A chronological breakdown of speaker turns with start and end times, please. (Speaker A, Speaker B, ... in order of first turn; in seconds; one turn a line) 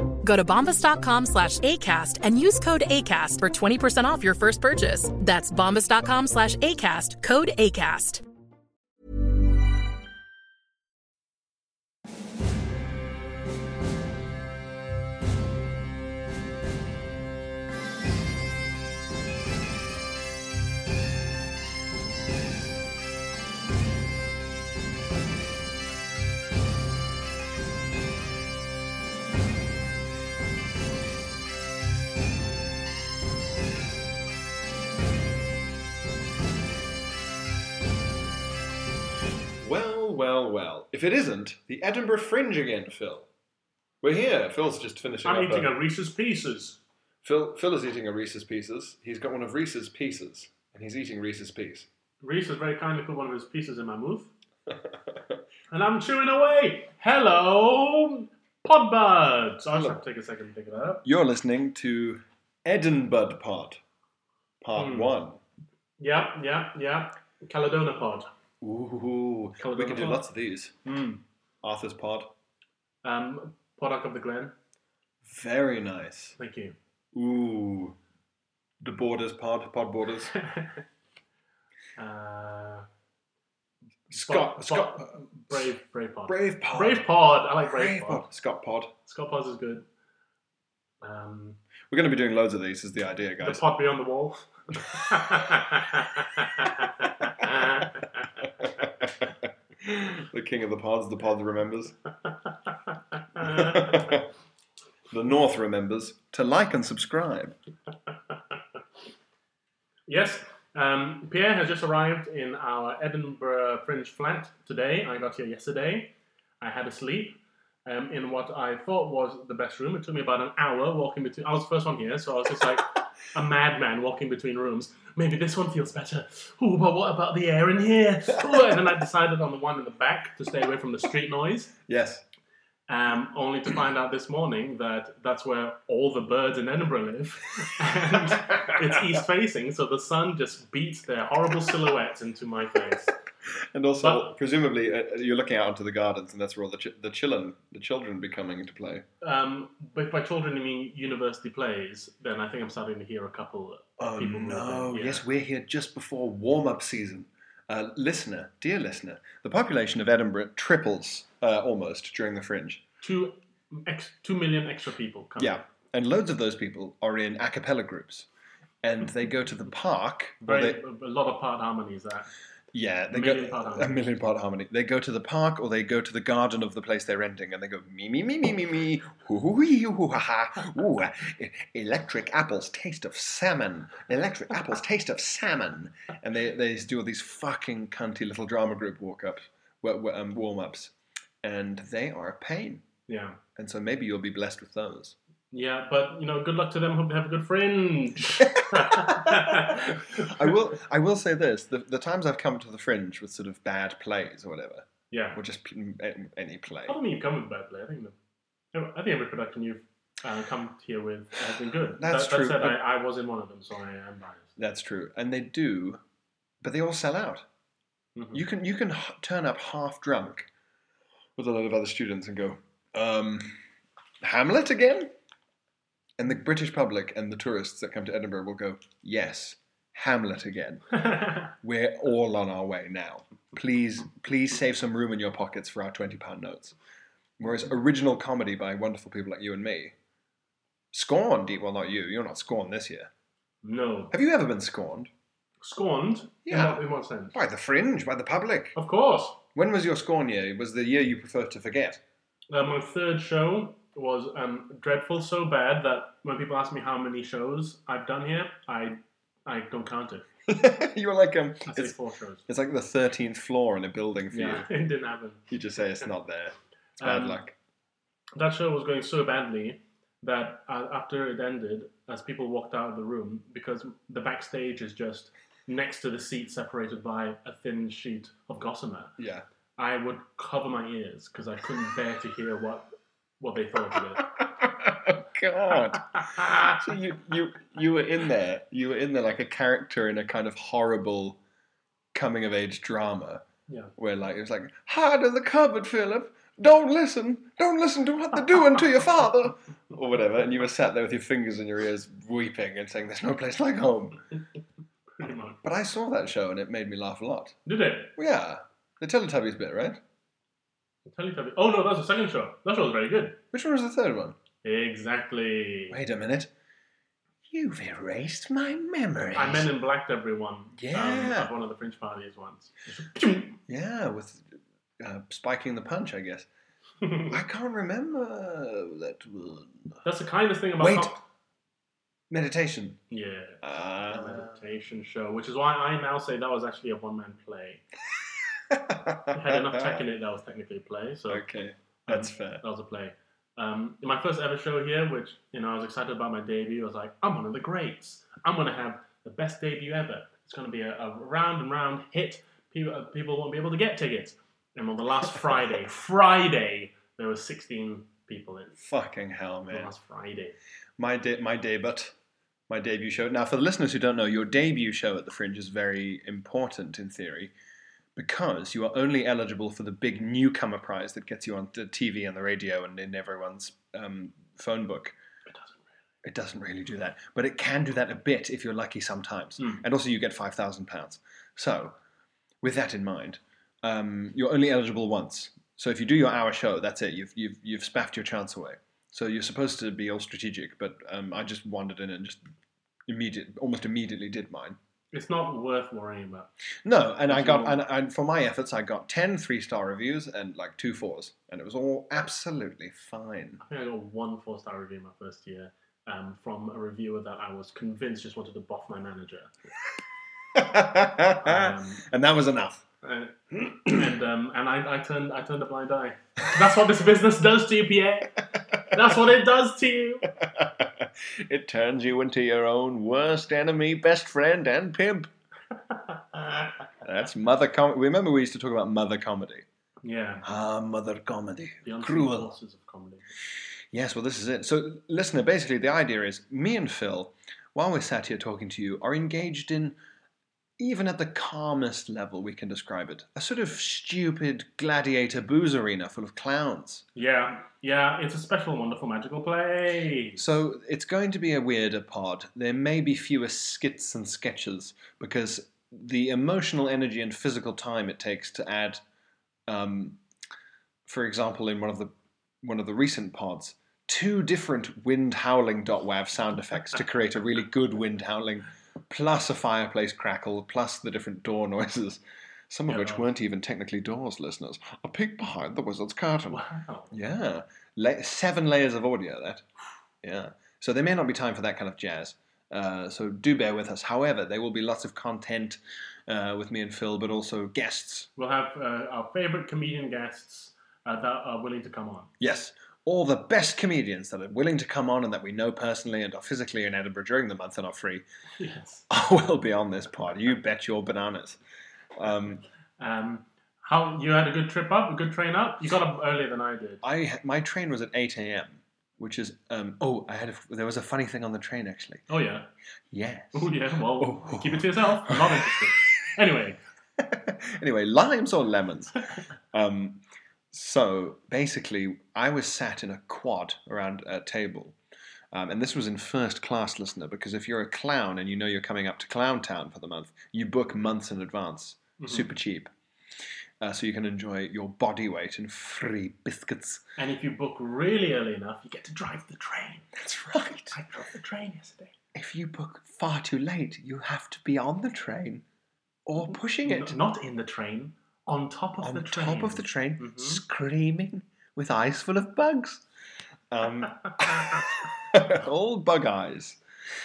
Speaker A: 0.2-8.2
Speaker B: 39.6-43.3
Speaker B: 44.0-45.7
Speaker C: 45.2-46.8
Speaker B: 47.2-51.9
Speaker C: 52.2-54.3
Speaker B: 54.7-55.4
Speaker C: 55.7-61.0
Speaker B: 59.7-60.0
Speaker B: 61.0-63.8
Speaker B: 64.6-65.4
Speaker C: 64.8-65.1
Speaker C: 66.0-68.3
Speaker B: 68.6-70.7
Speaker C: 69.6-70.2
Speaker C: 70.8-71.2
Speaker B: 71.6-72.3
Speaker C: 73.0-74.5
Speaker B: 75.2-76.3
Speaker C: 76.4-76.7
Speaker B: 77.1-78.0
Speaker B: 78.8-80.3
Speaker C: 80.3-80.8
Speaker C: 82.0-82.8
Speaker B: 84.1-85.7
Speaker C: 84.2-88.2
Speaker B: 86.3-87.1
Speaker B: 87.6-88.9
Speaker C: 89.0-89.8
Speaker C: 91.0-91.6
Speaker B: 91.9-93.7
Speaker C: 93.4-98.2
Speaker B: 98.4-102.0
Speaker C: 103.1-104.1
Speaker B: 103.4-104.3
Speaker B: 105.1-107.5
Speaker C: 110.1-131.7
Speaker B: 128.3-128.8
Speaker B: 131.9-132.2
Speaker C: 132.9-143.1
Speaker B: 138.3-139.2
Speaker B: 143.7-149.0
Speaker C: 144.0-144.3
Speaker C: 149.2-155.2
Speaker B: 154.0-162.8
Speaker C: 163.0-165.6
Speaker B: 165.4-168.3
Speaker B: 168.8-170.8
Speaker C: 170.4-172.3
Speaker B: 172.7-192.8
Speaker C: 173.1-174.1
Speaker C: 193.1-193.4
Speaker B: 193.6-195.2
Speaker C: 195.5-200.5
Speaker B: 198.4-207.0
Speaker C: 205.1-205.4
Speaker C: 206.8-208.1
Speaker C: 208.7-214.5
Speaker B: 212.0-212.8
Speaker B: 214.6-216.0
Speaker B: 216.6-217.4
Speaker C: 218.2-218.4
Speaker B: 218.3-220.5
Speaker B: 221.3-223.6
Speaker B: 224.2-225.1
Speaker B: 226.2-230.8
Speaker C: 230.9-231.5
Speaker B: 231.6-236.7
Speaker B: 237.4-239.9
Speaker B: 240.9-243.1
Speaker C: 243.6-244.1
Speaker B: 244.1-245.1
Speaker C: 245.6-247.4
Speaker B: 246.4-248.8
Speaker C: 248.8-249.4
Speaker B: 249.5-252.0
Speaker C: 252.5-260.2
Speaker B: 260.5-264.7
Speaker C: 261.6-262.4
Speaker C: 264.3-265.4
Speaker B: 265.5-267.5
Speaker C: 267.0-267.4
Speaker C: 268.4-279.1
Speaker B: 279.2-279.4
Speaker C: 279.8-282.9
Speaker C: 283.4-284.4
Speaker B: 284.2-291.4
Speaker C: 285.9-286.6
Speaker B: 292.1-293.4
Speaker B: 293.9-304.2
Speaker C: 305.2-305.6
Speaker B: 305.6-307.6
Speaker C: 307.6-308.1
Speaker B: 308.1-310.0
Speaker C: 311.1-313.4
Speaker B: 313.5-314.4
Speaker C: 314.6-316.0
Speaker B: 315.9-316.5
Speaker B: 317.5-319.7
Speaker C: 319.3-323.6
Speaker B: 320.8-321.5
Speaker B: 323.7-326.5
Speaker C: 327.0-327.4
Speaker B: 327.3-329.9
Speaker C: 330.0-331.2
Speaker B: 330.8-331.1
Speaker B: 332.3-333.0
Speaker C: 333.1-337.8
Speaker B: 333.6-334.6
Speaker B: 338.7-340.0
Speaker C: 339.3-341.4
Speaker B: 341.3-342.6
Speaker C: 342.1-358.8
Speaker B: 358.8-359.9
Speaker C: 359.7-360.6
Speaker B: 361.0-362.1
Speaker B: 362.7-367.5
Speaker B: 368.1-375.1
Speaker C: 375.5-375.9
Speaker B: 376.2-381.9
Speaker C: 379.6-379.8
Speaker B: 382.6-392.4
Speaker B: 393.1-394.8
Speaker C: 395.1-396.5
Speaker B: 396.8-403.6
Speaker C: 397.3-397.8
Speaker C: 403.6-409.5
Speaker B: 410.5-412.8
Speaker C: 411.4-412.0
Speaker C: 413.0-420.2
Speaker B: 413.5-414.1
Speaker B: 420.3-425.3
Speaker B: 427.0-429.6
Speaker C: 430.0-430.4
Speaker B: 430.4-432.5
Speaker C: 431.8-433.3
Speaker B: 433.9-440.0
Speaker B: 440.8-447.0
Speaker C: 447.1-450.5
Speaker B: 450.4-459.0
Speaker B: 459.7-460.2
Speaker B: 461.1-479.6
Speaker C: 472.9-473.3
Speaker C: 476.5-477.1
Speaker B: 480.2-488.3
Speaker C: 488.4-492.3
Speaker B: 492.4-498.2
Speaker C: 498.6-499.0
Speaker B: 499.1-501.6
Speaker B: 502.1-502.6
Speaker C: 503.0-507.0
Speaker B: 507.0-512.2
Speaker C: 512.3-512.7
Speaker B: 513.1-515.9
Speaker C: 513.5-516.8
Speaker B: 517.2-519.2
Speaker B: 519.7-520.2
Speaker B: 520.7-525.0
Speaker B: 525.5-532.9
Speaker C: 532.2-532.5
Speaker B: 533.8-537.0
Speaker C: 537.2-540.1
Speaker B: 540.1-541.0
Speaker C: 540.9-542.1
Speaker B: 542.3-545.6
Speaker B: 546.2-547.1
Speaker C: 546.4-550.6
Speaker B: 549.0-553.0
Speaker B: 553.7-556.8